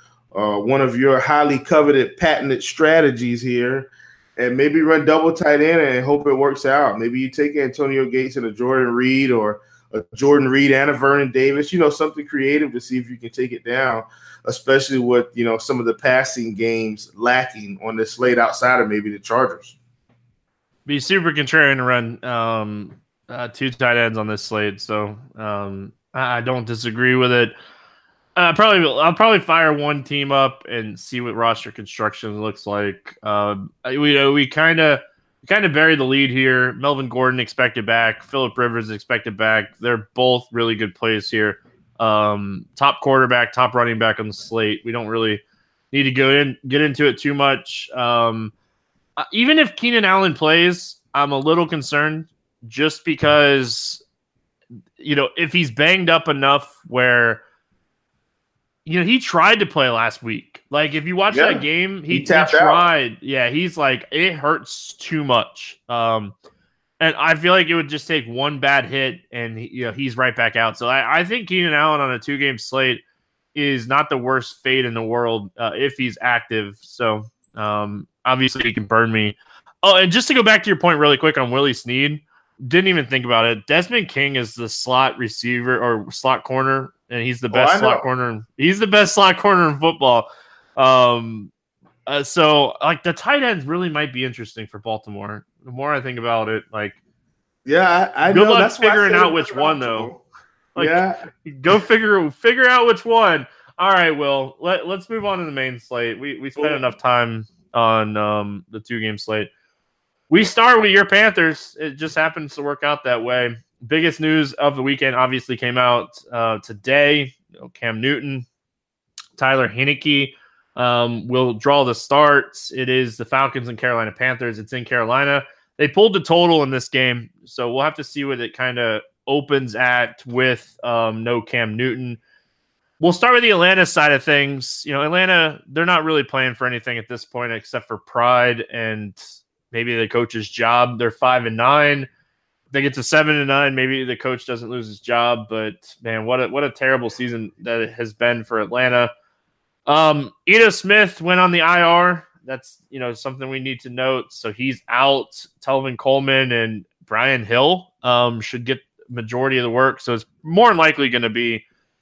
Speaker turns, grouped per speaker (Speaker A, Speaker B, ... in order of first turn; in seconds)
Speaker A: 0.3-19.8, 61.3-62.9, 87.5-88.0, 97.7-100.2, 100.8-101.2
Speaker B: 20.9-27.5, 28.4-48.5, 49.2-54.0, 55.0-57.4, 58.9-66.3, 67.0-73.0, 73.5-91.5, 92.1-97.0, 98.3-100.1, 100.8-109.5, 110.3-118.5, 119.4-132.2, 133.0-139.2, 139.7-142.1, 142.7-149.1, 149.9-161.6